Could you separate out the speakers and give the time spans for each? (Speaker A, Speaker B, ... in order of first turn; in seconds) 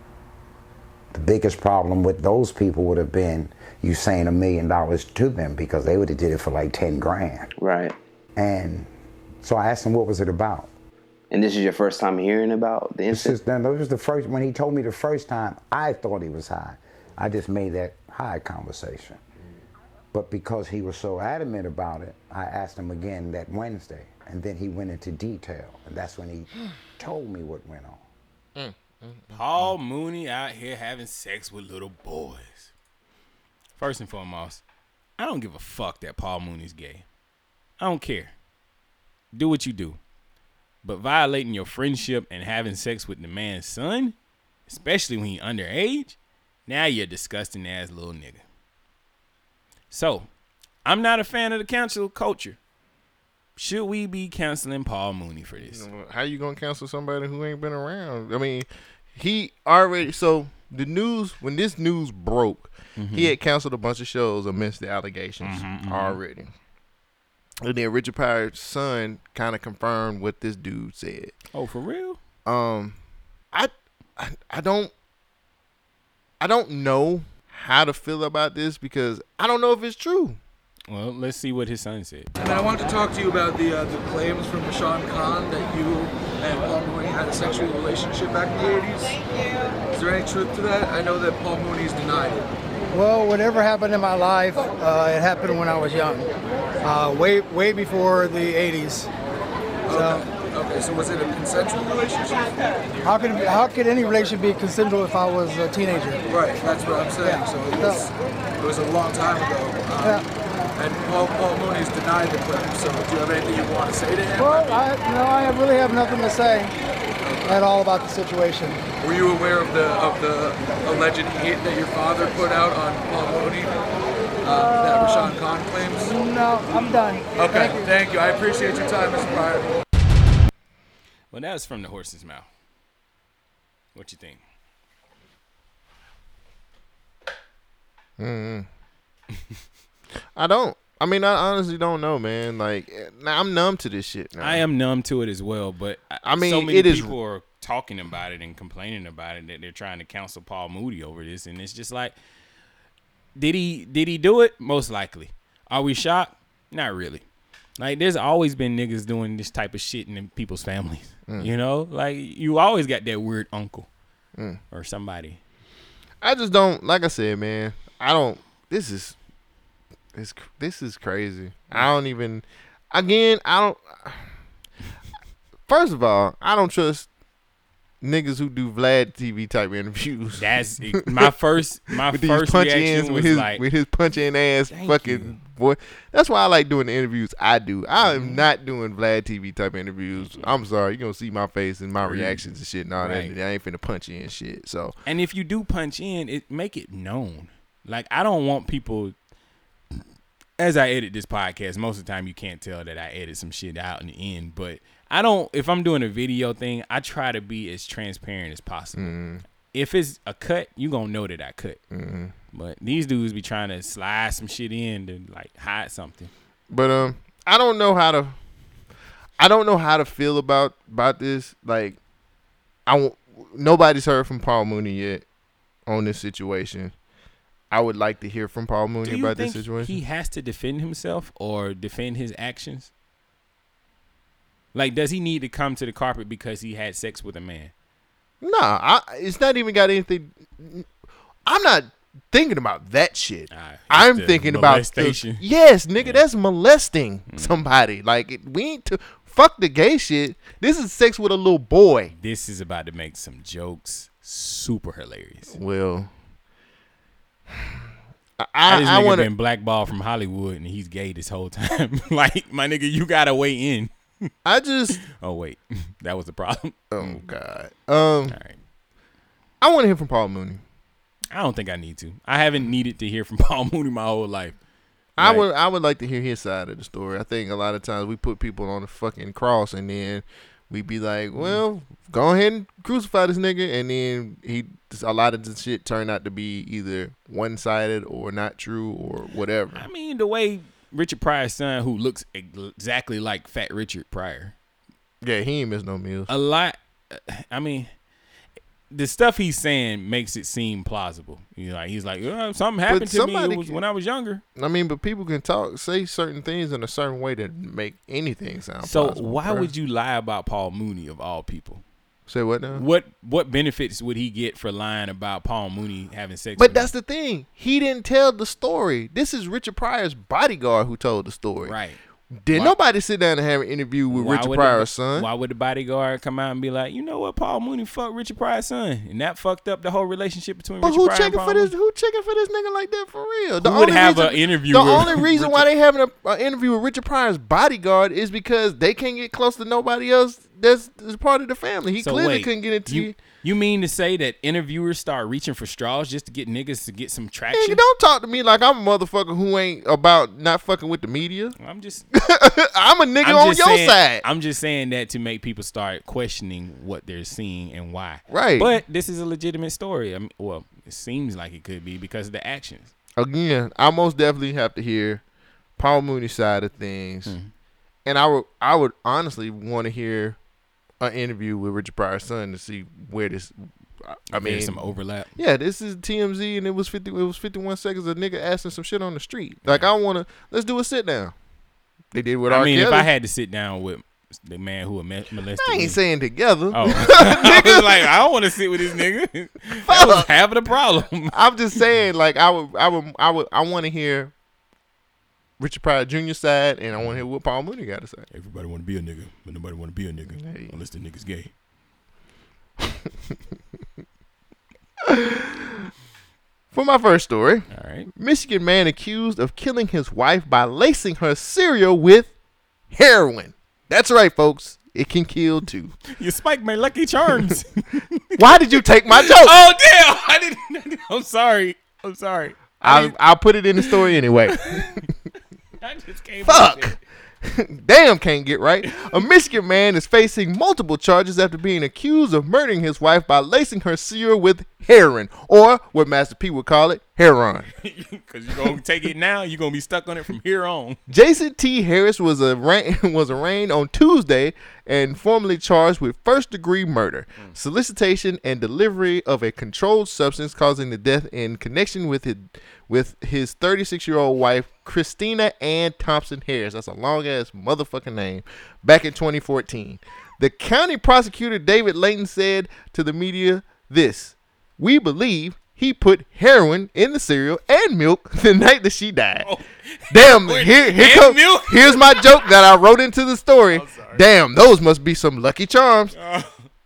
Speaker A: 1.1-7.5, 8.3-8.9, 9.4-10.7, 13.1-19.2, 20.1-28.0
Speaker B: 7.6-7.9, 11.3-13.4
Speaker C: 28.6-29.7, 55.7-66.5, 67.6-71.3, 72.4-73.0, 73.5-74.9, 76.4-80.4, 138.2-138.7, 140.3-144.7, 146.2-147.1, 166.2-169.2, 170.1-174.3, 175.7-177.1, 178.0-181.3, 181.9-194.9, 208.9-209.4, 211.9-212.3, 216.7-218.3, 219.4-222.0, 222.9-225.2, 225.9-226.9, 227.7-230.0, 238.4-240.9, 241.4-252.1, 255.5-256.1, 258.4-259.3, 264.4-265.0, 266.9-268.4, 269.6-270.6, 275.2-289.9, 295.2-296.3, 302.9-303.8, 304.5-309.7, 312.3-312.8, 316.6-321.7, 322.3-325.3, 330.8-343.1, 347.5-351.5, 352.1-354.2, 358.3-358.8, 363.2-365.2, 365.8-367.4, 368.1-370.4, 371.0-381.3, 382.1-383.1, 385.6-388.1, 389.8-390.3, 391.3-394.3, 395.6-398.2, 400.4-400.7, 402.8-403.1, 405.0-405.9, 406.7-412.3, 412.9-415.9, 418.4-419.6, 422.8-424.9, 426.4-437.7, 441.1-469.5, 470.1-476.1
Speaker D: 29.3-32.7, 33.8-34.6, 35.2-37.0, 37.8-38.3, 39.3-40.0, 40.8-44.1, 44.7-46.1, 46.7-48.4, 49.9-50.3, 50.8-52.6, 53.6-55.8, 63.0-63.4, 65.4-66.2, 71.5-72.2, 80.9-82.3, 131.3-132.5, 133.9-134.4, 144.4-152.1, 153.3-157.2, 157.8-163.9, 164.7-165.4, 180.4-183.6, 184.7-185.4, 188.0-188.4, 190.2-190.5, 192.0-192.4, 193.0-193.3, 195.1-199.1, 200.6-209.2, 209.7-211.8, 212.5-216.3, 229.0-232.9, 234.7-237.7, 243.5-245.4, 246.0-246.2, 247.3-247.7, 252.1-255.6, 258.6-263.9, 265.0-267.2, 268.3-268.6, 271.3-274.6, 275.2-275.5, 281.3-281.6, 289.7-294.5, 296.3-297.9, 298.9-304.4, 308.8-311.8, 312.7-316.9, 321.6-322.0, 324.1-331.7, 333.6-335.7, 342.0-347.8, 351.6-352.1, 353.2-362.9, 367.2-367.5, 374.3-375.3, 382.5-386.0, 386.7-391.4, 398.3-401.5, 407.7-408.1, 416.1-418.4, 419.1-423.1, 423.8-425.1, 425.8-427.0, 428.9-429.1, 437.8-441.0, 469.4-472.4, 473.7-474.2, 476.1-476.5
Speaker E: 82.4-89.2, 89.9-92.5, 99.9-102.6, 106.3-114.8, 117.2-117.6, 119.0-123.8, 124.4-126.2, 127.3-129.8
Speaker F: 92.9-96.3, 96.8-99.1, 99.9-100.2, 103.0-106.2, 107.2-108.1, 114.4-116.7, 117.5-118.8, 126.0-127.9